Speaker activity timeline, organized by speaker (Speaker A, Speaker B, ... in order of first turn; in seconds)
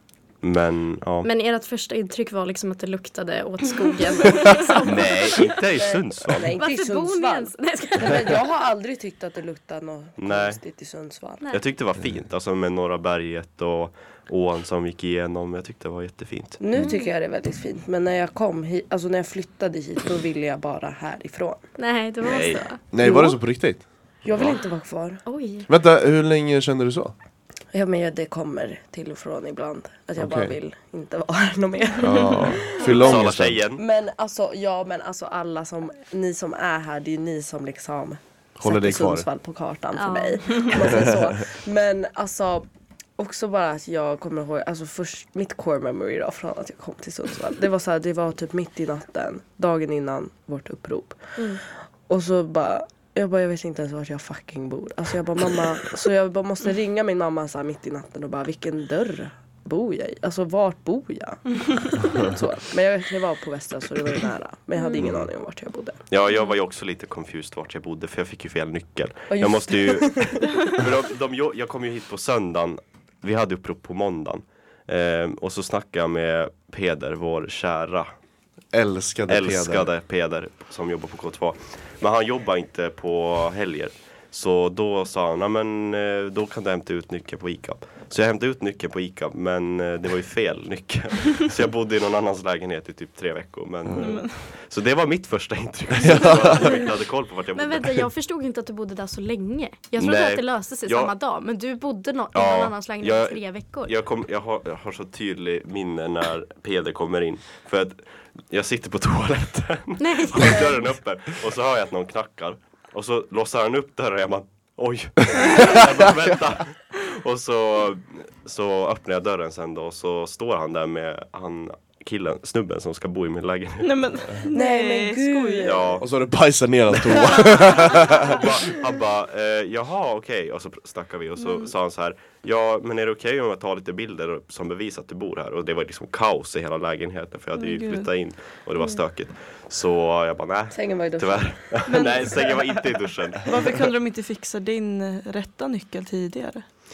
Speaker A: 0.4-1.3, 4.8-6.5, 10.2-10.6, 11.5-16.6, 22.2-22.6, 32.8-33.8, 65.0-65.3, 66.1-78.1, 79.3-98.1, 100.0-101.1, 102.3-124.1, 125.6-126.0, 127.4-143.5
Speaker B: 1.2-5.6, 6.6-8.4, 16.8-17.1, 21.8-22.8, 25.2-25.7, 40.0-41.0, 64.8-65.1, 96.1-96.9, 97.5-103.9, 110.0-110.8
Speaker C: 5.8-11.4, 16.6-21.6, 23.0-23.4, 24.2-25.2, 27.7-33.1, 33.7-42.6, 43.2-51.4, 52.1-66.0, 69.3-70.4, 124.5-126.0, 140.7-142.2
Speaker D: 22.9-23.8, 25.7-27.1, 30.2-30.5, 32.0-33.6, 38.6-39.3, 40.9-41.3, 78.7-79.9, 96.0-96.7, 126.0-128.7
Speaker E: 94.0-94.3, 123.8-126.0, 137.6-138.1, 141.9-142.6, 143.4-146.7